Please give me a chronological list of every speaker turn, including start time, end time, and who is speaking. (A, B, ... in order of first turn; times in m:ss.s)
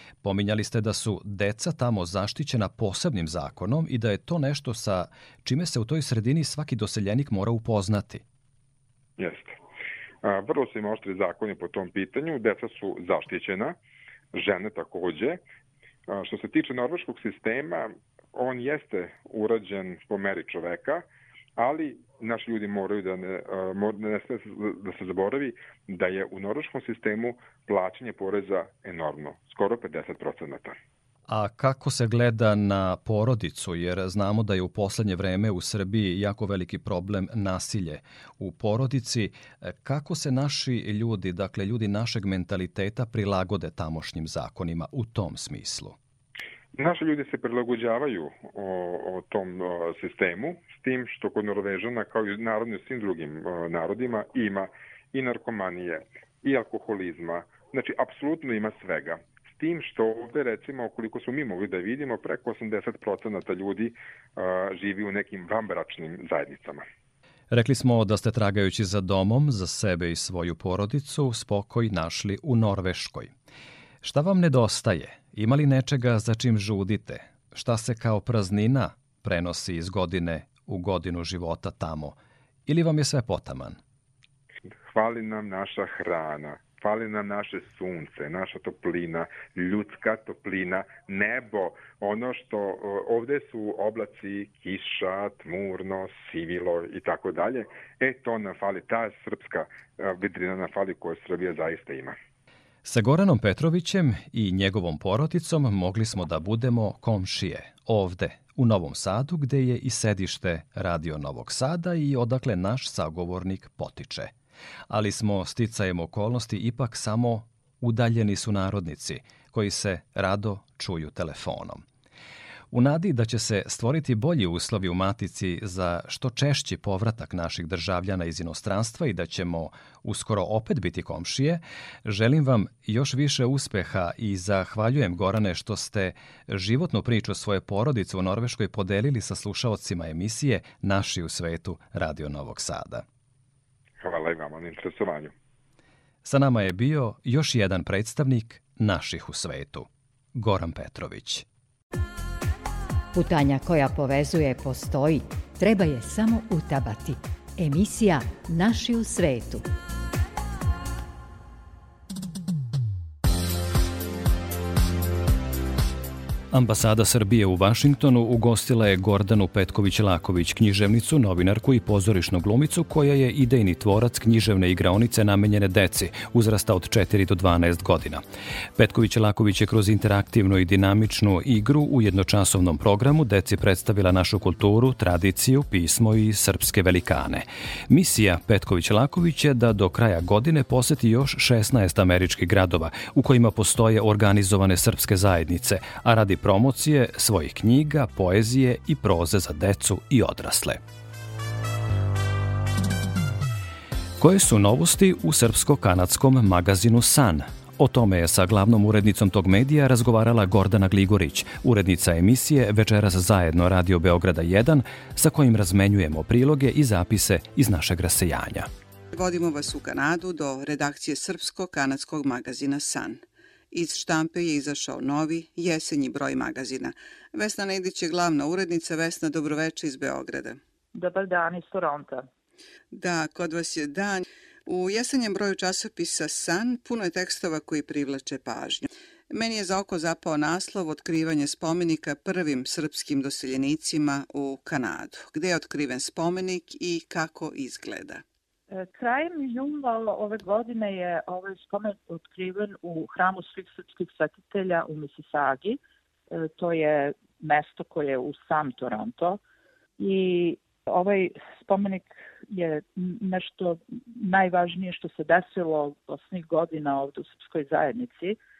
0:00.2-0:08.2 A
0:09.2-0:09.5 B
0:10.2-0:13.8 B
0:14.3-0:15.4 B
0:16.1-0:21.0 B
0:21.6-0:30.8 B
0:31.3-0:46.0 A
0:46.8-1:06.8 B
1:07.5-1:13.3 A
1:14.0-1:23.8 A
1:24.9-1:42.2 B
1:42.8-1:54.3 A
1:54.9-2:01.8 A
2:02.7-2:23.0 A
2:24.0-2:25.3 B
2:26.2-2:31.4 A
2:33.1-2:39.6 C
2:46.5-2:58.2 A
2:58.8-3:20.8 A
3:24.2-3:38.7 A
3:39.1-3:50.6 D
3:50.9-3:52.3 E
3:52.9-4:08.2 D
4:08.7-4:15.8 E
4:16.3-4:19.4 E
4:20.0-4:28.4 E